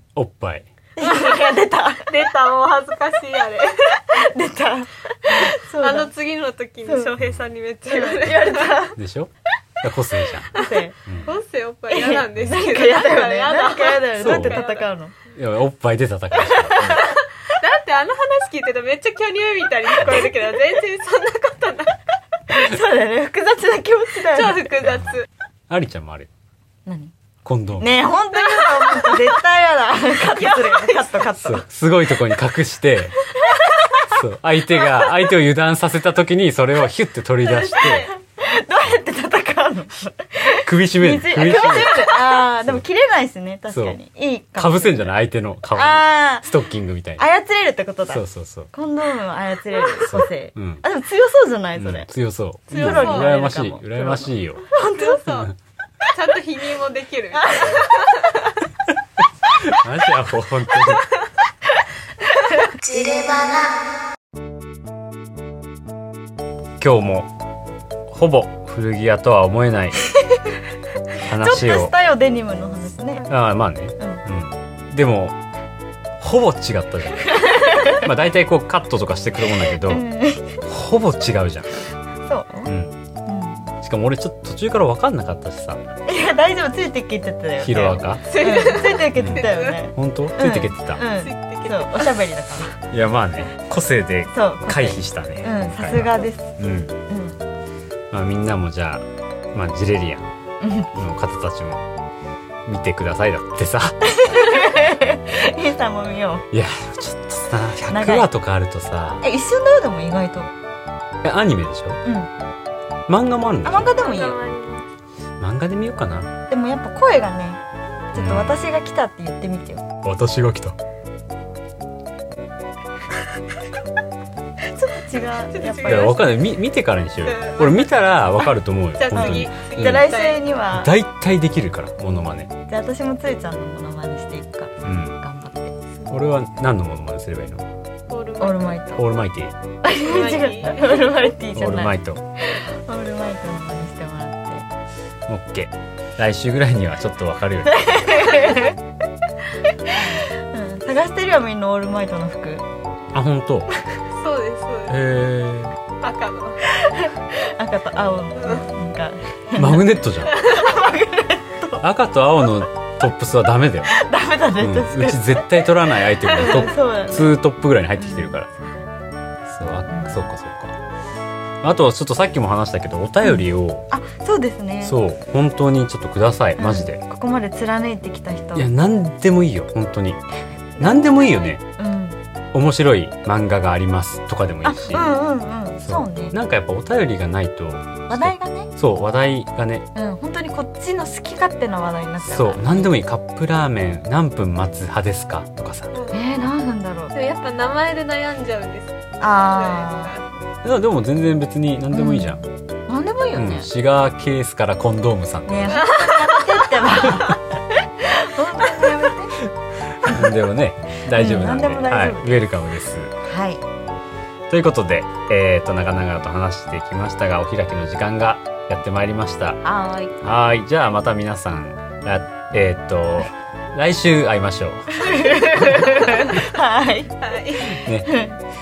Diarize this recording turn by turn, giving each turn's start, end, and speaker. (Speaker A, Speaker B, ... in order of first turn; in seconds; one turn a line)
Speaker A: 0.1-0.7
Speaker B: 1.0-2.1
Speaker C: 1.0-1.5
Speaker C: 2.0-4.2
Speaker B: 4.0-6.1
Speaker C: 5.3-8.8
Speaker B: 6.8-7.2
Speaker B: 7.8-9.0
Speaker A: 8.9-10.5
Speaker B: 10.5-10.9
Speaker C: 10.5-14.9
Speaker B: 11.9-15.1
Speaker A: 12.4-12.6
Speaker A: 14.2-14.6
Speaker A: 15.3-17.0
Speaker B: 16.5-17.0
Speaker C: 17.0-22.0
Speaker B: 20.0-20.5
Speaker B: 22.5-24.8
Speaker C: 24.3-25.3
Speaker A: 24.8-25.1
Speaker A: 25.7-26.3
Speaker B: 26.9-27.1
Speaker A: 27.4-27.9
Speaker B: 27.8-31.6
Speaker C: 28.3-29.4
Speaker C: 30.3-31.1
Speaker A: 31.3-33.2
Speaker B: 33.5-34.2
Speaker A: 34.1-38.1
Speaker B: 37.5-45.1
Speaker A: 40.6-42.8
Speaker A: 43.7-44.0
Speaker A: 44.6-47.2
Speaker B: 45.7-46.5
Speaker B: 47.2-52.1
Speaker A: 48.1-48.7
Speaker A: 50.0-50.8
Speaker A: 51.8-54.6
Speaker B: 52.7-55.4
Speaker C: 52.7-53.4
Speaker C: 54.7-55.5
Speaker C: 56.1-58.4
Speaker B: 57.4-58.2
Speaker A: 59.6-61.1
Speaker B: 62.3-63.6
Speaker A: 66.8-67.3
Speaker A: 68.1-70.0
Speaker A: 71.2-71.9
Speaker B: 71.2-73.3
Speaker A: 73.3-75.3
Speaker A: 76.2-80.0
Speaker B: 77.3-78.0
Speaker B: 79.8-80.6
Speaker A: 80.6-81.7
Speaker B: 82.2-82.7
Speaker A: 82.7-83.0
Speaker B: 83.2-83.7
Speaker A: 83.8-85.8
Speaker B: 86.0-92.7
Speaker A: 87.6-88.3
Speaker C: 88.3-89.8
Speaker A: 89.1-91.0
Speaker C: 91.0-92.2
Speaker A: 92.8-96.9
Speaker B: 94.3-96.5
Speaker B: 97.1-97.4
Speaker A: 98.1-100.3
Speaker B: 100.6-100.9
Speaker A: 100.9-101.8
Speaker A: 102.7-104.0
Speaker B: 104.0-106.5
Speaker A: 106.5-109.2
Speaker B: 107.9-108.3
Speaker B: 109.2-110.5
Speaker A: 111.2-112.0
Speaker B: 112.0-112.3
Speaker A: 113.1-113.9
Speaker B: 113.6-114.4
Speaker C: 113.8-114.9
Speaker A: 115.4-116.3
Speaker B: 116.5-119.8
Speaker A: 118.1-118.7
Speaker A: 120.0-120.8
Speaker B: 124.7-126.2
Speaker C: 125.5-126.2
Speaker A: 125.8-130.1
Speaker C: 127.2-130.4
Speaker B: 129.1-130.9
Speaker A: 130.7-132.5
Speaker B: 132.7-135.7
Speaker A: 134.8-135.2
Speaker C: 136.0-136.3
Speaker A: 136.1-137.6
Speaker C: 138.1-138.8
Speaker B: 138.4-139.0
Speaker A: 138.9-139.6
Speaker B: 139.8-144.7
Speaker C: 140.0-141.3
Speaker A: 141.5-142.2
Speaker A: 145.3-148.4
Speaker B: 147.7-148.8
Speaker B: 149.7-152.6
Speaker A: 153.1-153.7
Speaker C: 154.1-155.0
Speaker A: 154.9-155.8
Speaker C: 156.0-156.6
Speaker B: 156.7-161.8
Speaker C: 158.4-158.7
Speaker A: 159.6-160.4
Speaker C: 160.3-160.9
Speaker A: 161.8-163.9
Speaker B: 163.9-165.4
Speaker A: 164.6-168.5
Speaker B: 166.3-167.3
Speaker B: 168.0-168.8
Speaker A: 169.4-170.8
Speaker B: 169.9-170.2
Speaker A: 171.6-173.9
Speaker B: 173.2-175.0
Speaker A: 174.8-177.0
Speaker B: 176.6-178.7
Speaker A: 178.5-180.2
Speaker A: 180.8-181.6
Speaker B: 180.8-182.2
Speaker A: 182.5-185.2
Speaker B: 184.6-186.3
Speaker A: 185.8-189.9
Speaker B: 188.1-188.7
Speaker B: 189.9-192.8
Speaker A: 192.2-195.9
Speaker C: 195.9-196.5
Speaker B: 196.1-197.1
Speaker C: 197.1-200.3
Speaker B: 199.2-200.1
Speaker A: 200.6-202.4
Speaker B: 201.9-203.7
Speaker A: 203.3-205.9
Speaker B: 205.4-209.4
Speaker C: 205.7-207.1
Speaker A: 209.9-213.1
Speaker B: 211.1-212.5
Speaker B: 213.2-213.6
Speaker A: 214.5-219.6
Speaker B: 219.6-220.1
Speaker A: 220.2-224.9
Speaker B: 224.9-227.1
Speaker A: 225.6-226.2
Speaker C: 227.2-227.8
Speaker A: 227.7-228.1
Speaker B: 228.1-228.4